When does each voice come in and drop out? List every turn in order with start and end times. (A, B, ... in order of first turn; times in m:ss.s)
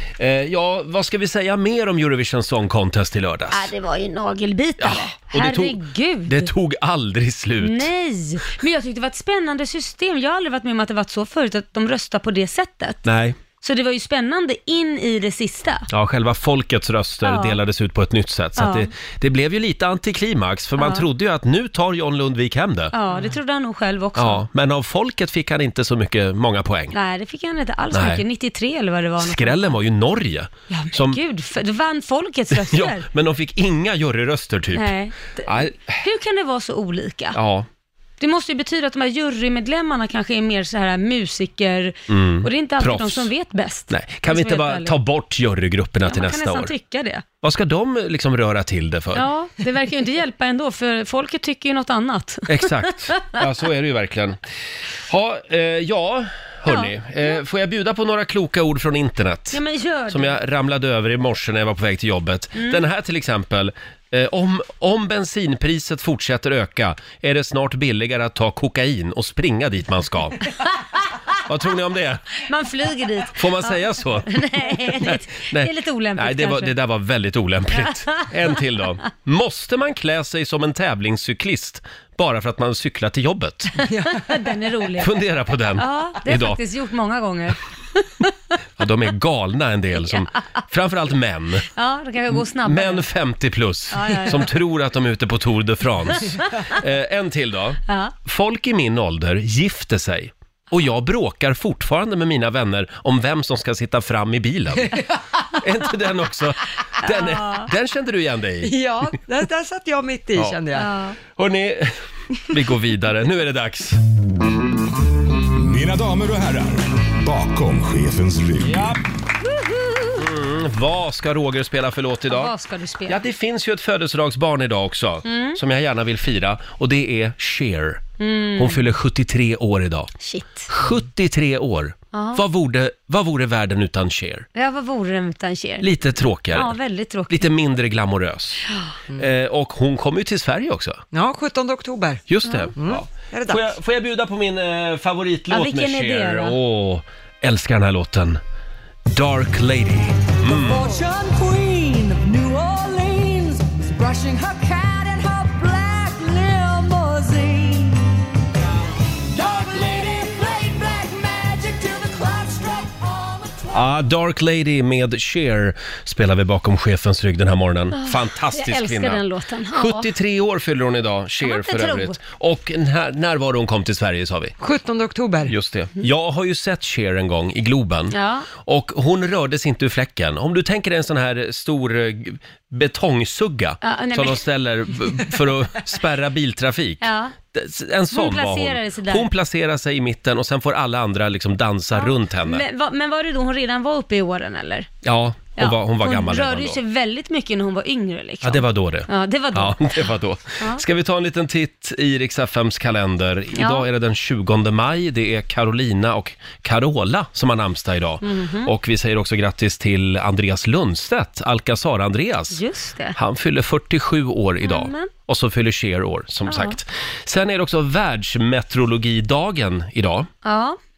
0:00.2-0:03.7 A
0:03.5-0:06.5 B
0:04.8-0:07.9 A
0:07.6-0:13.1 B
0:13.0-0:13.4 A
0:13.6-0:15.9 B
0:15.9-0:22.9 A
0:17.2-0:17.6 B
0:18.6-0:18.9 B
0:20.8-0:21.1 B
0:22.9-0:24.4 B
0:24.2-0:27.0 A
0:26.9-0:29.7 B
0:27.9-0:28.2 A
0:29.2-0:31.2 A
0:30.7-0:33.1 B
0:32.6-0:34.9 A
0:34.7-0:37.4 B
0:35.4-0:36.0 A
0:37.3-0:37.7 A
0:38.2-0:44.9 B
0:42.1-0:43.3 A
0:43.9-0:46.7 A
0:46.1-0:47.2 B
0:47.4-0:49.2 A
0:49.1-0:53.2 B
0:52.5-0:54.4 A
0:55.1-1:10.4 A
0:56.7-0:56.9 B
0:59.5-1:00.4 B
1:02.6-1:02.8 B
1:11.4-1:12.4 A
1:12.5-1:16.7 B
1:13.4-1:23.8 A
1:17.7-1:18.2 B
1:23.8-1:25.1 B
1:23.9-1:24.2 C
1:25.0-1:26.6 A
1:25.8-1:27.6 B
1:28.8-1:31.7 A
1:31.8-1:33.0 B
1:32.3-1:45.0 A
1:33.9-1:34.5 B
1:37.9-1:38.1 B
1:45.6-1:48.8 A
1:47.0-1:47.7 B
1:48.6-1:50.9 C
1:50.8-1:51.2 B
1:51.4-1:54.0 A
1:55.6-1:59.0 D
1:58.6-1:59.0 A
2:00.2-2:02.5 A
2:02.3-2:03.2 B
2:03.1-2:08.0 A
2:05.3-2:05.6 B
2:08.2-2:08.8 B
2:08.6-2:10.1 A
2:10.2-2:10.7 B
2:10.7-2:14.5 A
2:12.1-2:12.4 B
2:14.6-2:15.9 B
2:15.8-2:16.7 A
2:16.5-2:17.5 B
2:17.3-2:18.6 A
2:19.2-2:21.0 A
2:21.1-2:22.2 C
2:22.3-2:28.4 A
2:22.8-2:23.7 C
2:25.5-2:26.6 B
2:29.1-2:30.8 A
2:30.6-2:38.1 E
2:39.3-2:43.7 E
2:43.7-2:54.6 A
2:48.0-2:50.1 B
2:51.4-2:52.2 B
2:54.6-2:55.5 C
2:55.5-3:12.6 A
2:58.1-2:58.5 B
3:03.8-3:04.4 B
3:07.0-3:07.3 B
3:08.1-3:09.3 B
3:11.9-3:14.9 B
3:15.0-3:16.8 A
3:15.6-3:20.1 B
3:18.4-3:32.6 A
3:23.6-3:23.9 B
3:28.2-3:28.7 B
3:32.5-3:33.2 B
3:33.2-3:40.3 A
3:34.6-3:35.1 B
3:36.5-3:36.8 B
3:40.4-3:40.8 B